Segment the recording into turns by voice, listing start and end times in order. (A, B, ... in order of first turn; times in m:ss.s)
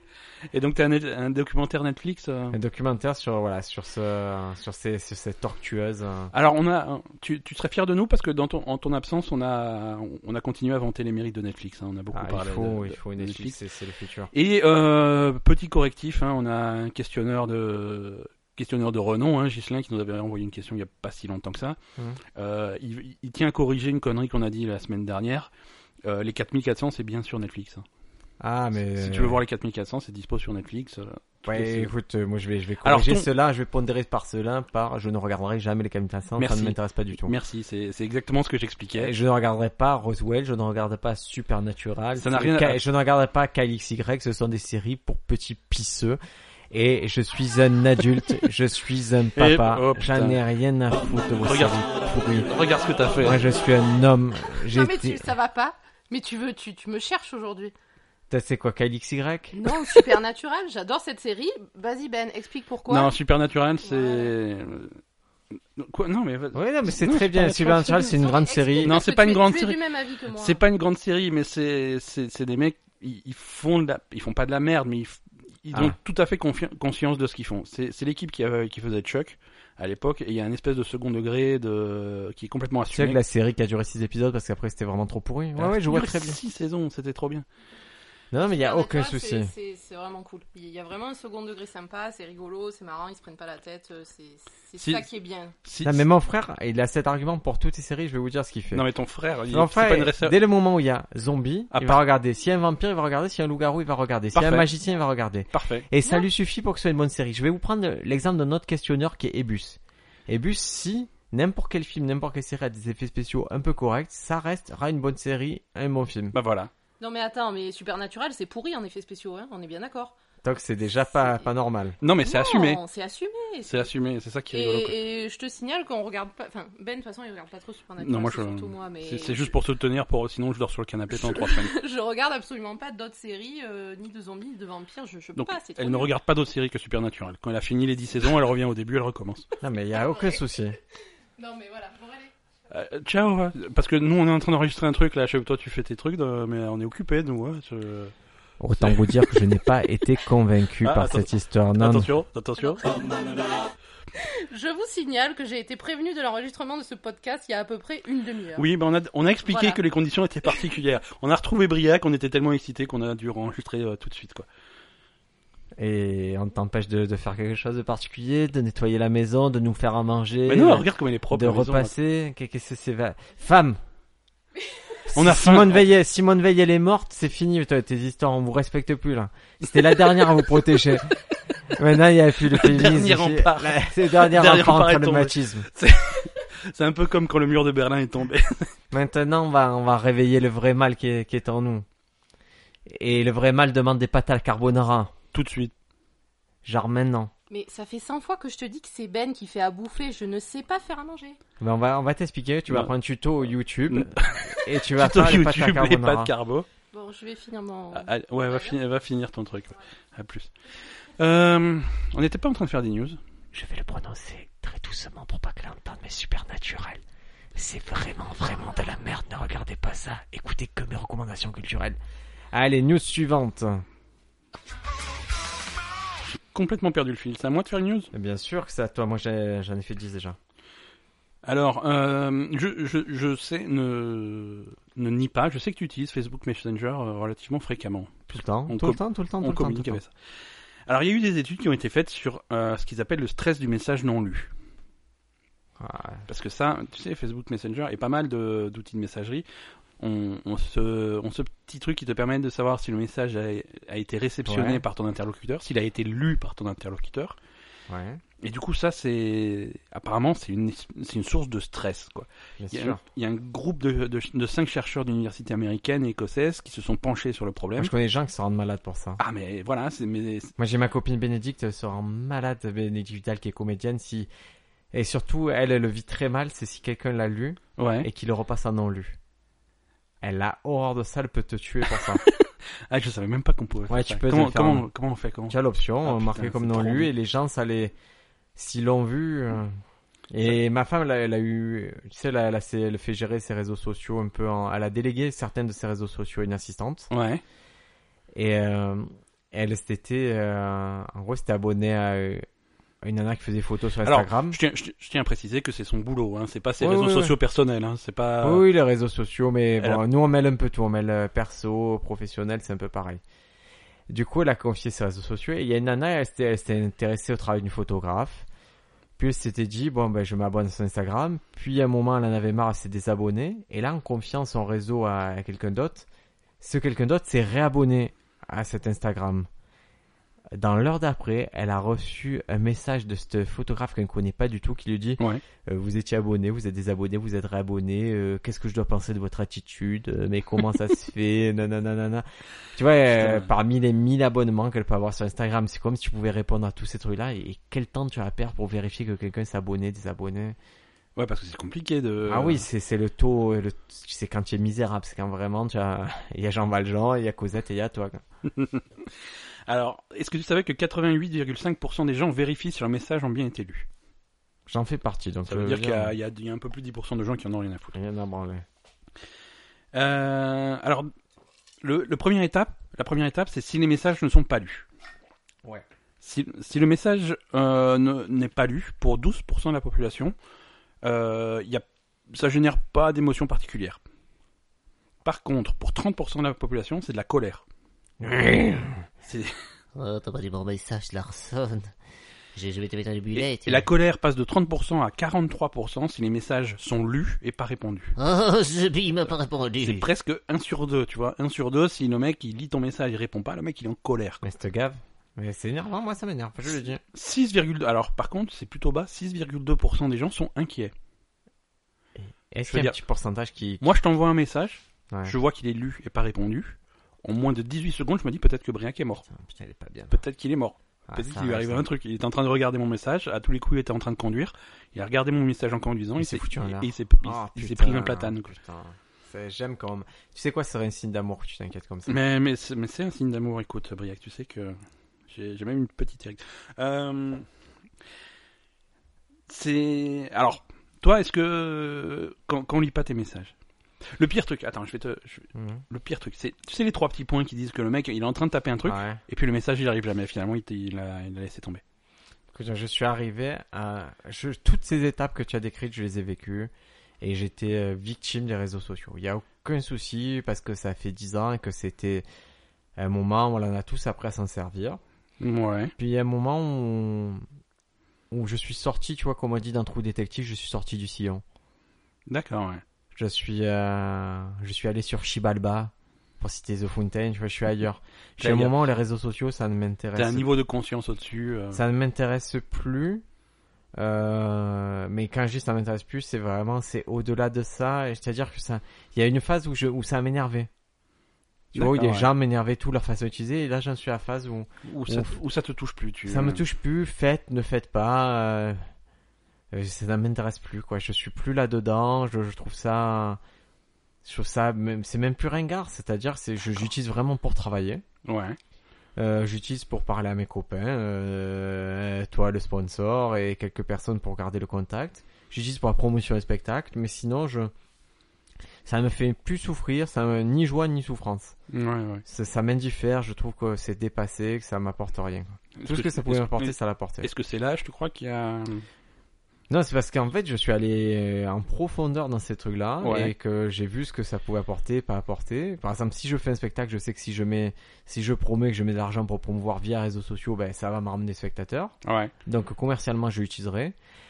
0:00.5-0:02.6 A
0:02.5-0:06.3 B
0:06.3-0:13.6 A
0:12.1-0:14.3 B
0:14.3-0:21.8 A
0:22.4-0:25.5 A
0:26.0-0:27.9 A
0:28.4-0:29.4 B
0:29.0-0:31.9 A
0:31.5-0:37.4 B
0:32.8-0:33.3 A
0:36.4-0:39.1 A
0:39.0-0:46.2 B
0:42.2-0:42.8 A
0:46.7-0:52.5 B
0:49.4-0:50.4 A
0:51.4-0:51.8 A
0:52.4-0:53.4 A
0:53.2-0:55.3 B
0:54.7-0:57.7 C
0:58.3-0:59.6 B
0:59.5-1:03.2 C
1:02.9-1:05.0 A
1:03.8-1:04.3 C
1:05.8-1:08.1 A
1:06.5-1:09.0 B
1:07.6-1:10.6 C
1:08.8-1:09.8 A
1:10.3-1:23.2 A
1:22.9-1:26.4 B
1:25.6-1:27.5 A
1:28.3-1:29.5 B
1:28.5-1:35.6 C
1:34.8-1:35.1 A
1:35.6-1:36.0 A
1:35.8-1:38.8 B
1:38.7-1:40.4 A
1:39.5-1:56.4 B
1:41.7-1:42.0 A
1:44.3-1:44.7 A
1:45.5-1:45.9 A
1:56.3-1:56.7 A
1:57.0-2:00.2 C
2:00.4-2:02.0 B
2:02.0-2:02.8 A
2:02.2-2:03.9 C
2:03.7-2:05.0 A
2:04.5-2:09.6 C
2:08.0-2:11.7 A
2:11.1-2:16.1 C
2:15.4-2:19.5 A
2:19.6-2:20.8 B
2:20.0-2:20.4 C
2:21.4-2:22.3 C
2:22.7-2:28.1 A
2:28.6-2:32.1 B
2:28.8-2:29.1 A
2:30.8-2:32.9 A
2:32.6-2:33.4 C
2:34.2-2:38.7 C
2:38.6-2:44.5 A
2:39.5-2:39.8 C
2:45.8-2:53.8 B
2:50.5-2:51.9 A
2:55.1-3:01.2 B
2:55.1-2:55.9 A
2:59.7-3:00.4 A
3:01.7-3:05.7 B
3:02.5-3:08.7 A
3:08.9-3:11.9 B
3:12.9-3:15.1 B
3:15.3-3:15.7 A
3:16.6-3:17.3 B
3:17.5-3:21.4 C
3:21.6-3:26.3 B
3:23.9-3:26.7 A
3:26.9-3:28.8 C
3:27.9-3:33.2 A
3:33.5-3:37.0 B
3:37.6-3:42.0 B
3:42.5-3:43.8 B
3:46.2-3:48.1 A
3:48.1-3:50.4 B
3:51.4-4:00.1 A
3:58.3-4:00.0 B
4:00.9-4:04.5 A
4:05.8-4:06.3 B
4:06.3-4:09.4 A
4:10.0-4:17.4 A
4:14.5-4:14.8 B
4:17.9-4:18.2 B
4:18.4-4:27.9 A
4:22.6-4:23.0 B
4:27.8-4:29.2 B
4:29.2-4:30.5 A
4:30.6-4:34.3 B
4:34.9-4:39.2 B
4:37.8-4:38.1 A
4:40.2-4:42.2 B
4:42.0-4:47.1 A
4:43.9-4:44.9 B
4:45.5-4:47.9 B
4:48.6-4:49.8 B
4:50.3-4:57.1 B
4:57.1-4:57.4 A
4:58.3-5:02.5 B
5:03.0-5:04.6 B
5:04.0-5:08.6 A
5:06.8-5:07.4 B
5:08.4-5:13.2 B
5:14.1-5:18.5 B
5:19.2-5:26.1 B
5:26.6-5:29.5 B
5:30.5-5:50.6 B
5:43.1-5:43.5 A
5:51.2-5:52.7 A
5:52.3-5:58.2 B
5:58.6-6:03.9 A
6:04.7-6:06.2 B
6:05.5-6:08.0 A
6:07.9-6:08.6 B
6:09.9-6:11.1 A
6:11.8-6:14.9 A
6:16.2-6:20.4 A
6:21.0-6:24.0 A
6:25.2-6:27.6 A
6:28.2-6:29.1 B
6:29.2-6:29.6 A
6:30.0-6:31.9 D
6:32.6-6:33.9 D
6:33.3-6:38.2 A
6:38.2-6:40.1 D
6:39.3-6:44.4 A
6:44.4-6:47.0 B
6:47.1-6:50.9 A
6:52.2-6:53.9 B
6:52.7-6:53.0 A
6:53.8-6:59.2 A
6:59.3-7:00.2 B
7:00.1-7:08.5 A
7:01.1-7:01.8 B
7:06.2-7:12.2 B
7:12.1-7:17.5 A
7:19.5-7:31.8 A
7:25.5-7:25.8 B
7:28.8-7:29.2 B
7:32.5-7:42.2 B
7:43.0-7:45.0 B
7:45.4-7:45.9 A
7:46.0-7:47.4 B
7:48.3-7:51.4 B
7:52.3-7:52.8 A
7:53.2-8:00.5 B
7:58.4-7:58.8 A
8:00.2-8:01.8 A
8:01.7-8:03.2 B
8:04.0-8:10.7 B
8:11.7-8:12.3 A
8:11.7-8:15.4 B
8:14.8-8:16.6 A
8:16.3-8:18.9 B
8:19.7-8:23.4 B
8:24.2-8:28.0 B
8:28.2-8:28.6 A
8:29.2-8:37.7 B
8:38.8-8:41.6 B
8:41.7-8:42.2 A
8:42.3-8:47.3 B
8:45.8-8:48.9 A
8:49.7-9:02.0 B
8:53.0-8:53.3 A
9:02.0-9:02.3 A
9:02.5-9:04.0 B